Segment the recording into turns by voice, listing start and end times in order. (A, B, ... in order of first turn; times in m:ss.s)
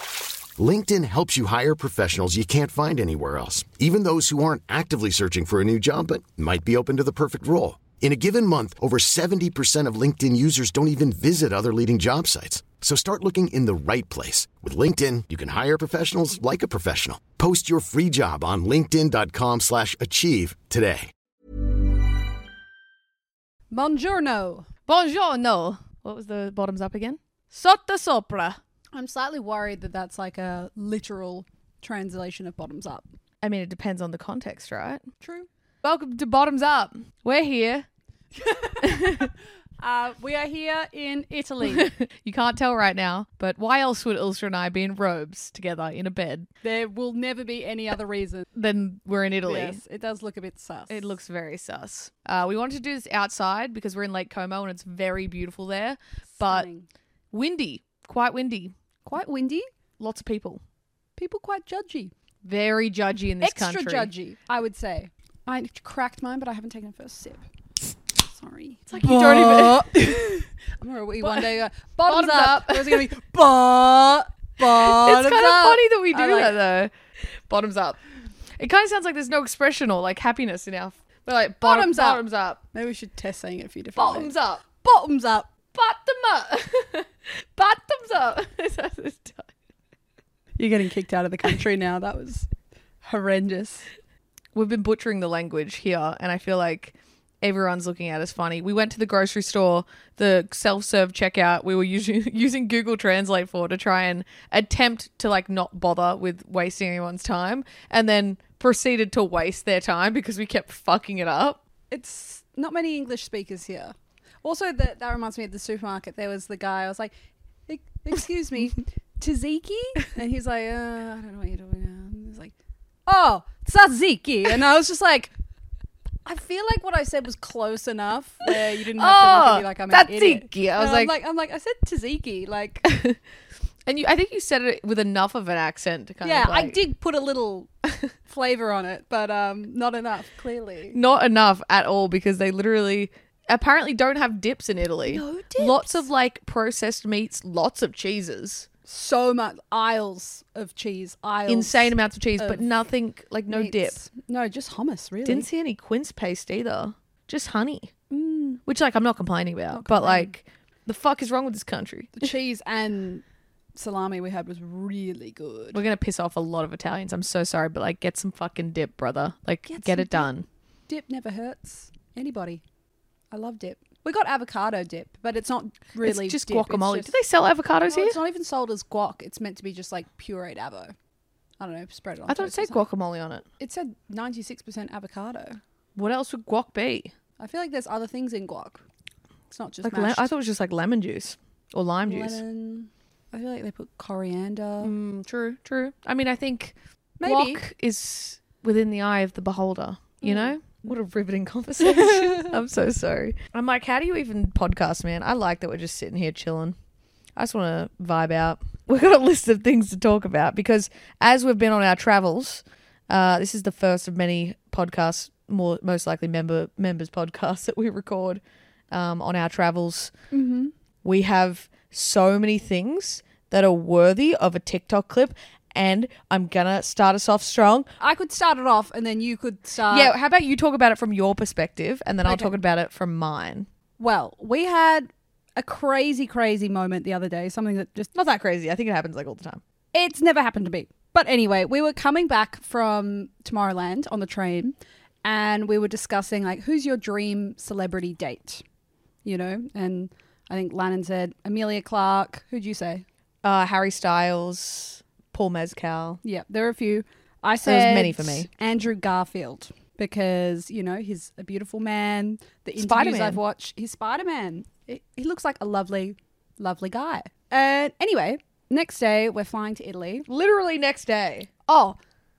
0:00.5-0:21.1 A
0:23.7-0:24.7 B
0:24.9-0:28.6 C
0:28.9-0:33.1 B
0:33.4-0:35.0 C
0:35.2-0:35.5 B
0:35.8-0:37.9 C
0:38.4-0:41.9 B
0:38.8-0:39.3 C
0:41.6-0:46.5 C
0:46.6-0:48.5 B
0:48.5-0:49.8 C
0:49.4-0:51.1 B
0:50.9-0:56.7 C
0:56.4-0:56.9 B
0:57.3-0:58.7 C
0:59.0-0:59.7 B
1:00.0-1:00.6 C
1:01.2-1:02.1 B
1:02.4-1:04.1 C
1:03.4-1:07.4 B
1:08.2-1:16.6 B
1:08.9-1:10.2 C
1:11.2-1:13.1 C
1:14.6-1:16.9 C
1:17.5-1:18.0 C
1:18.6-1:22.6 C
1:21.6-1:25.5 B
1:24.0-1:24.6 C
1:25.7-1:29.5 C
1:30.6-1:32.5 B
1:33.0-1:33.9 B
1:34.5-1:51.6 C
1:51.9-1:57.1 B
1:57.7-2:02.5 B
2:03.1-2:05.3 B
2:06.2-2:12.9 B
2:09.0-2:11.1 C
2:12.8-2:13.2 C
2:13.8-2:16.8 C
2:16.2-2:17.7 B
2:18.3-2:21.0 B
2:20.9-2:28.7 C
2:25.0-2:26.0 B
2:28.9-2:32.7 B
2:31.5-2:34.0 C
2:33.5-2:35.5 B
2:35.2-2:37.9 C
2:38.1-2:38.6 B
2:38.6-2:42.3 C
2:39.7-2:40.3 B
2:42.2-2:43.2 B
2:43.7-2:45.8 B
2:45.7-2:50.4 C
2:49.7-2:50.3 B
2:50.9-2:52.6 B
2:53.3-2:57.2 B
2:56.0-2:58.2 C
2:57.8-3:00.9 B
3:01.6-3:02.8 B
3:02.3-3:03.4 C
3:03.6-3:05.6 B
3:06.0-3:07.1 C
3:07.4-3:08.8 B
3:09.5-3:10.3 B
3:09.8-3:12.4 C
3:12.0-3:14.9 B
3:14.8-3:26.8 C
3:17.2-3:17.6 B
3:20.2-3:20.8 B
3:21.8-3:22.6 B
3:27.4-3:40.1 C
3:40.3-3:40.7 B
3:41.0-3:47.9 C
3:48.0-3:50.1 B
3:49.9-3:53.7 C
3:52.2-3:52.6 B
3:54.0-3:58.1 B
3:58.1-3:59.6 C
3:59.9-4:08.6 B
4:09.2-4:13.0 B
4:13.4-4:16.2 C
4:16.2-4:30.3 B
4:17.6-4:18.5 C
4:22.8-4:23.4 C
4:30.3-4:31.5 C
4:31.7-4:32.0 B